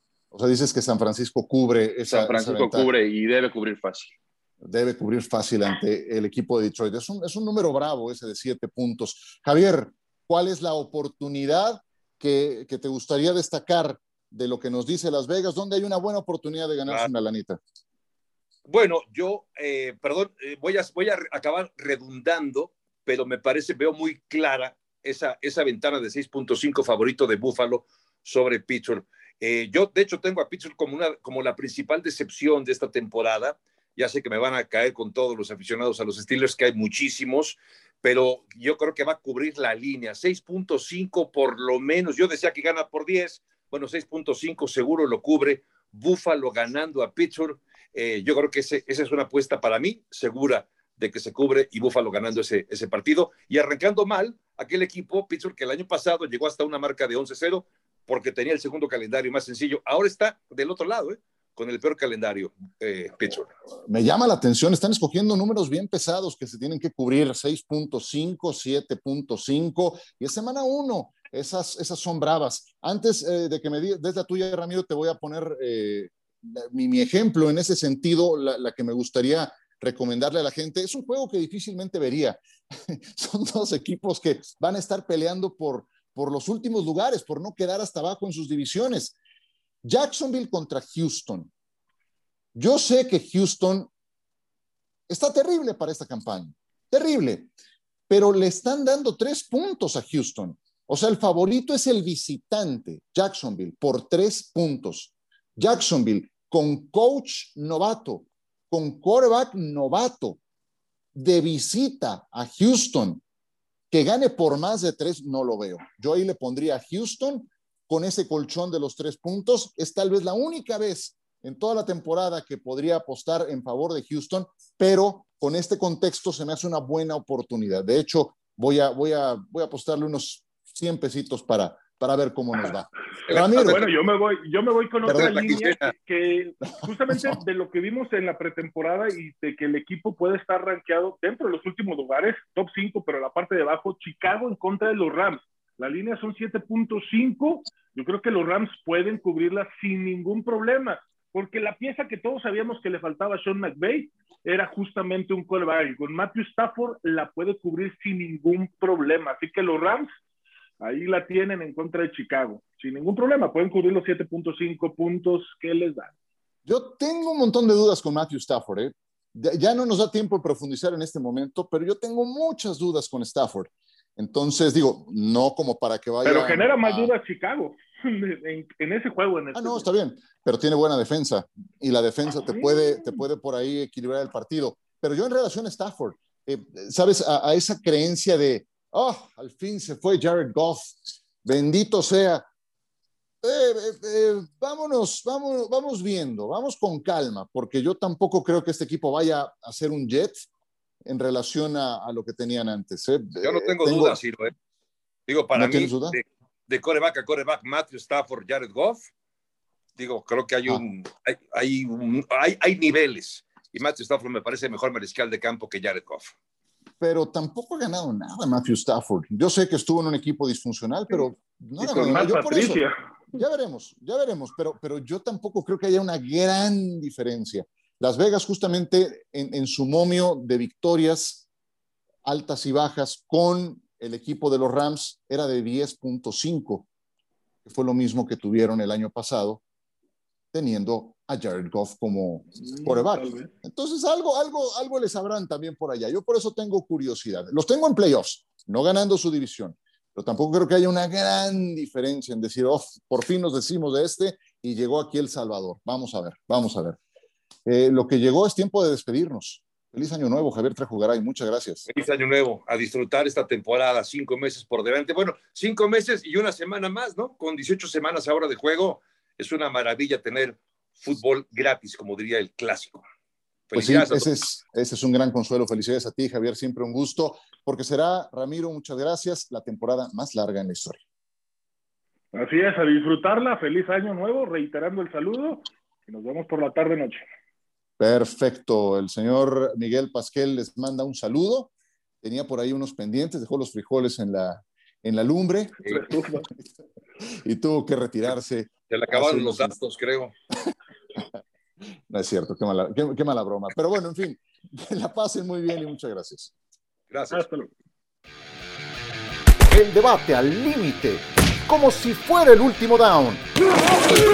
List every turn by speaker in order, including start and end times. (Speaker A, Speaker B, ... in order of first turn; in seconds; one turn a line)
Speaker A: 0.3-2.9
Speaker B: 2.1-4.1
Speaker A: 4.6-17.6
Speaker C: 18.6-63.5
Speaker A: 63.9-89.2
Speaker A: 89.8-91.5
Speaker A: 92.5-93.9
Speaker A: 95.1-97.5
Speaker A: 98.1-110.4
Speaker A: 111.1-113.2
Speaker A: 113.9-133.8
Speaker C: 133.3-133.8
Speaker D: 133.3-160.1
Speaker C: 135.1-135.9
Speaker D: 160.8-166.1
Speaker A: 166.7-177.1
Speaker D: 176.2-179.9
Speaker A: 179.5-192.4
Speaker D: 182.6-182.9
Speaker A: 193.4-200.5
Speaker A: 201.0-204.2
Speaker C: 203.4-204.5
Speaker C: 205.3-209.1
Speaker A: 205.5-206.2
Speaker C: 210.0-216.3
Speaker A: 217.0-231.4
Speaker D: 221.8-222.9
Speaker A: 232.2-236.9
Speaker A: 237.6-239.6
Speaker A: 240.5-257.0
Speaker D: 242.6-243.5
Speaker A: 257.6-261.9
Speaker C: 261.9-273.0
Speaker C: 273.7-274.3
Speaker A: 273.7-281.0
Speaker D: 282.3-287.2
Speaker A: 288.0-291.7
Speaker A: 292.2-296.1
Speaker D: 295.9-296.5
Speaker A: 297.4-299.7
Speaker C: 298.9-300.3
Speaker A: 302.1-306.5
Speaker C: 307.1-307.4
Speaker D: 307.3-307.7
Speaker E: 309.7-313.4